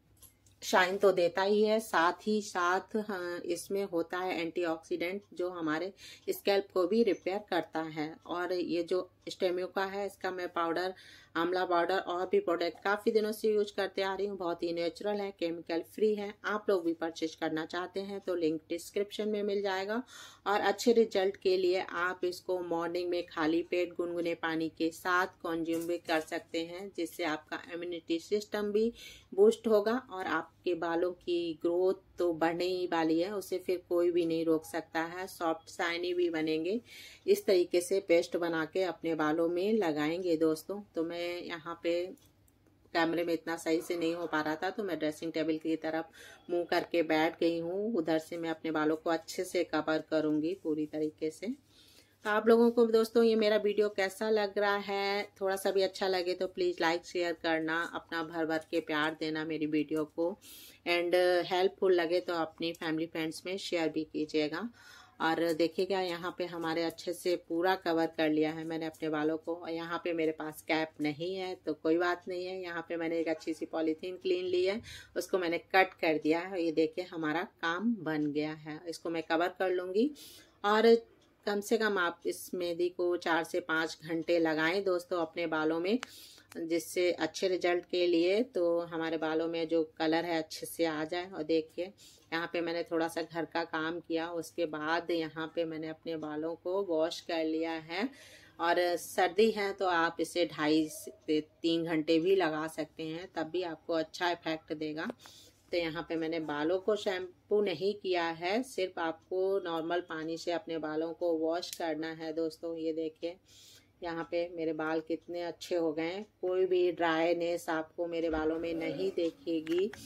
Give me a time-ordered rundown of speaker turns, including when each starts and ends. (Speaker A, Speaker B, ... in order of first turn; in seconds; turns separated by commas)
Speaker A: 0.7-42.1, Speaker A: 42.9-51.5, Speaker A: 52.2-64.7, Speaker A: 65.2-80.1, Speaker A: 80.6-86.0, Speaker A: 86.6-98.1, Speaker A: 98.6-105.1, Speaker A: 105.7-113.4, Speaker A: 114.0-119.9